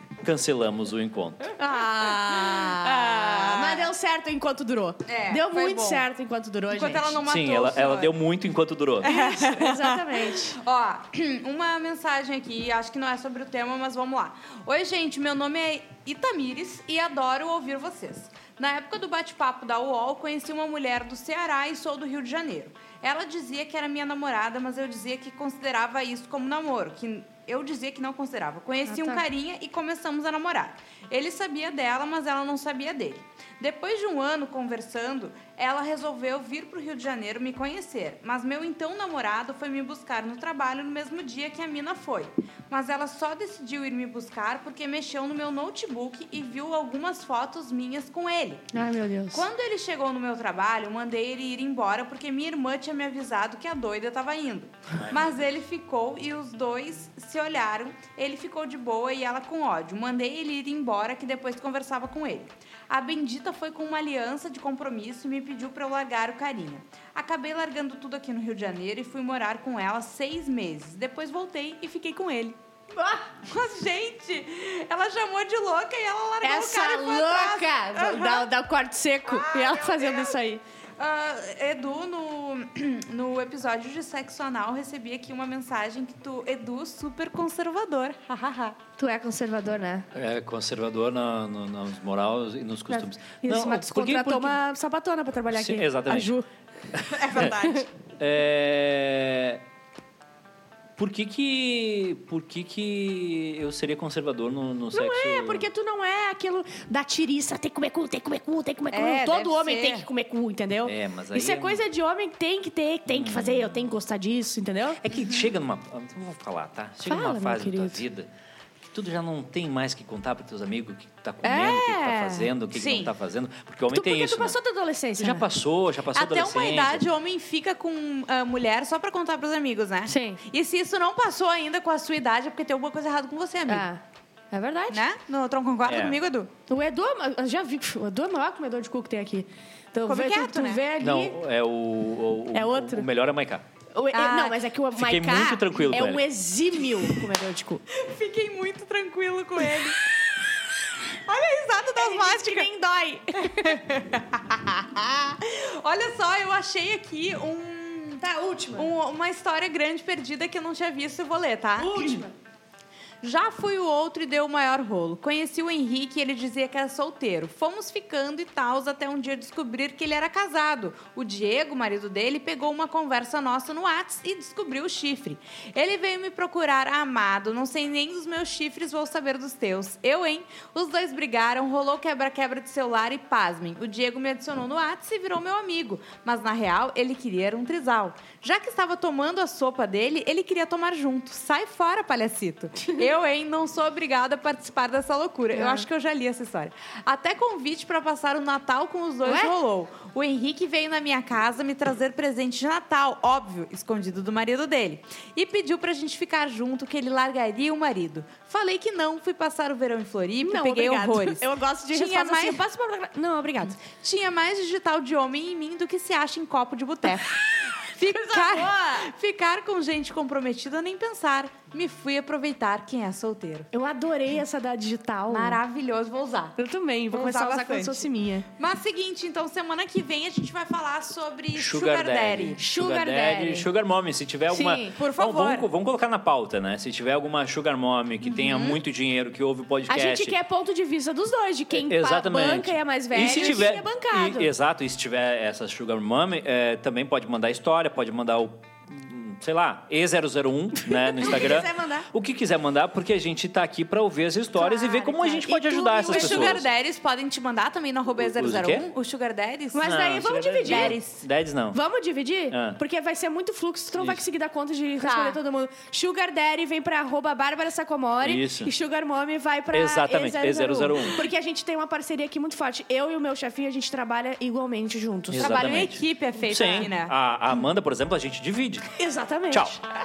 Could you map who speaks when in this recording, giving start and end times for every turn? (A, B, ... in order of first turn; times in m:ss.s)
0:00.2-0:01.5 A
0:01.6-0:07.2 B
0:01.6-0:03.9 C
0:05.1-0:06.0 C
0:06.7-0:08.1 C
0:07.2-0:09.1 A
0:09.0-0:10.6 B
0:09.0-0:48.7 C
0:28.9-0:29.2 B
0:48.7-0:49.4 B
0:49.3-1:12.6 C
0:55.0-0:55.5 A
1:13.0-1:13.2 B
1:13.4-1:18.5 C
1:16.4-1:20.6 B
1:19.2-1:20.4 C
1:21.0-1:28.8 C
1:29.0-1:30.1 B
1:30.1-1:34.6 A
1:32.9-1:36.4 B
1:35.5-1:36.4 A
1:36.9-1:37.5 A
1:37.1-1:37.9 C
1:38.2-1:39.6 A
1:41.0-1:45.7 A
1:44.9-1:55.0 B
1:48.9-1:50.1 C
1:50.8-1:51.8 A
1:53.1-1:53.8 A
1:55.0-1:58.3 A
1:55.1-1:55.5 C
1:57.0-1:58.0 B
1:58.8-2:04.6 A
2:01.5-2:02.2 B
2:01.5-2:03.1 C
2:03.9-2:05.4 B
2:05.2-2:07.0 A
2:06.1-2:13.9 C
2:10.0-2:10.4 B
2:13.7-2:14.0 B
2:14.5-2:15.0 B
2:14.9-2:16.5 C
2:15.8-2:16.2 A
2:16.7-2:21.4 B
2:20.0-2:20.8 C
2:21.0-2:23.6 A
2:22.5-2:23.0 B
2:23.9-2:27.8 B
2:24.1-2:24.6 C
2:24.9-2:26.3 A
2:27.9-2:30.0 C
2:31.1-2:42.2 C
2:32.0-2:33.8 B
2:41.8-2:42.3 B
2:43.2-3:32.6 C
3:15.5-3:15.8 B
3:19.2-3:19.5 B
3:30.4-3:33.8 B
3:33.8-3:43.7 C
3:37.6-3:39.1 B
3:43.7-3:45.6 B
3:45.3-3:46.6 C
3:46.6-3:48.4 B
3:47.1-3:52.6 C
3:51.5-4:00.4 A
3:52.6-3:53.7 B
3:54.5-3:54.9 B
3:54.9-3:55.7 C
3:58.2-3:58.8 C
3:59.9-4:04.5 B
4:01.7-4:16.6 A
4:10.9-4:12.1 B
4:14.5-4:16.6 B
4:15.7-4:21.2 C
4:18.2-4:18.9 A
4:19.7-4:21.0 B
4:19.8-4:21.8 A
4:21.7-4:35.9 B
4:22.5-4:22.8 A
4:24.0-4:24.2 A
4:25.0-4:25.4 C
4:28.2-4:28.7 A
4:29.7-4:31.2 A
4:35.3-4:38.9 A
4:35.4-4:37.1 C
4:36.5-4:36.9 B
4:38.9-4:39.8 B
4:39.5-4:39.8 A